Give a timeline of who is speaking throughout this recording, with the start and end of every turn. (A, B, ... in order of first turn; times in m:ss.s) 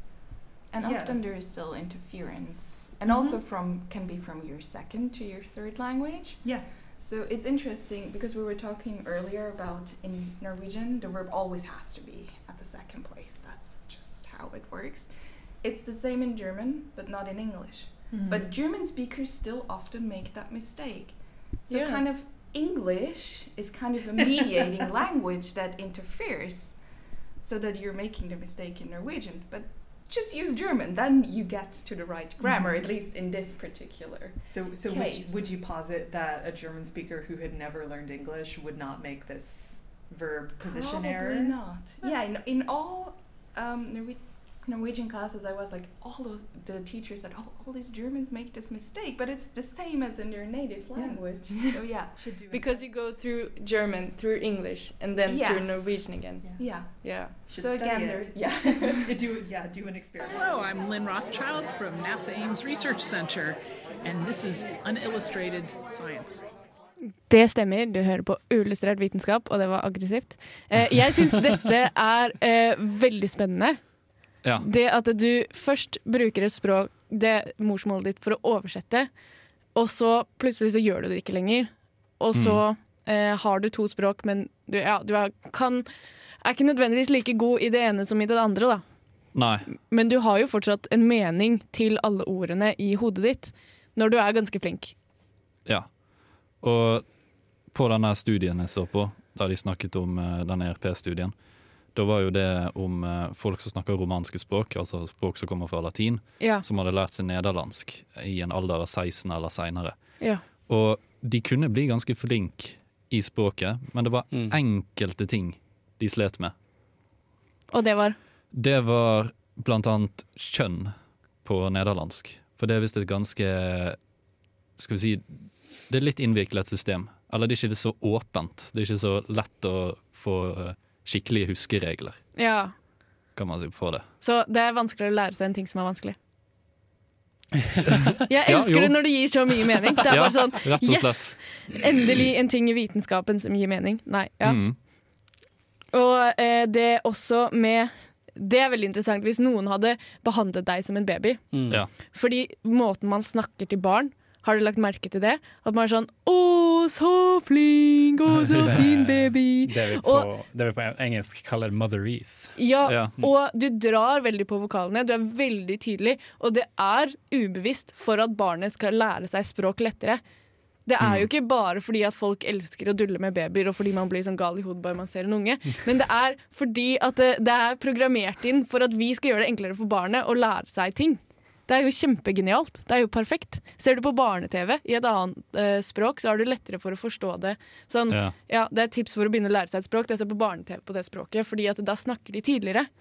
0:00.7-0:26.8 A
0:00.8-0:01.2 B
0:03.0-0:03.4 B
0:06.4-0:06.7 B
0:18.1-0:18.5 B
0:21.7-0:22.0 C
0:27.4-0:35.4 A
0:32.4-0:32.8 B
0:34.5-0:42.1 B
0:40.6-0:52.3 A
0:50.9-0:52.9 B
0:52.5-0:57.4 D
0:55.2-0:59.1 A
0:56.4-1:00.6 B
1:00.2-1:06.4 E
1:07.3-1:13.8 C
1:14.6-1:19.1 C
1:19.7-1:25.8 C
1:22.3-1:22.6 F
1:26.4-1:28.8 C
1:29.3-1:29.7 F
1:29.9-1:34.9 C
1:35.6-1:36.0 F
1:36.6-1:37.1 F
1:37.7-1:41.3 F
1:41.9-1:50.0 F
1:50.6-1:56.5 F
1:54.3-1:54.6 G
1:57.7-1:58.2 C
1:58.5-2:04.0 F
2:04.8-2:12.2 F
2:12.4-2:12.7 C
2:13.3-2:14.0 F
2:14.2-2:16.2 C
2:18.2-2:24.6 C
2:18.4-2:19.4 F
2:20.1-2:21.4 F
2:24.4-2:24.8 F
2:25.9-2:40.3 C
2:31.5-2:31.8 G
2:38.5-2:42.6 G
2:42.6-2:50.2 C
2:42.8-2:43.1 F
2:50.8-3:12.9 C
2:51.0-2:51.2 F
3:08.1-3:08.3 F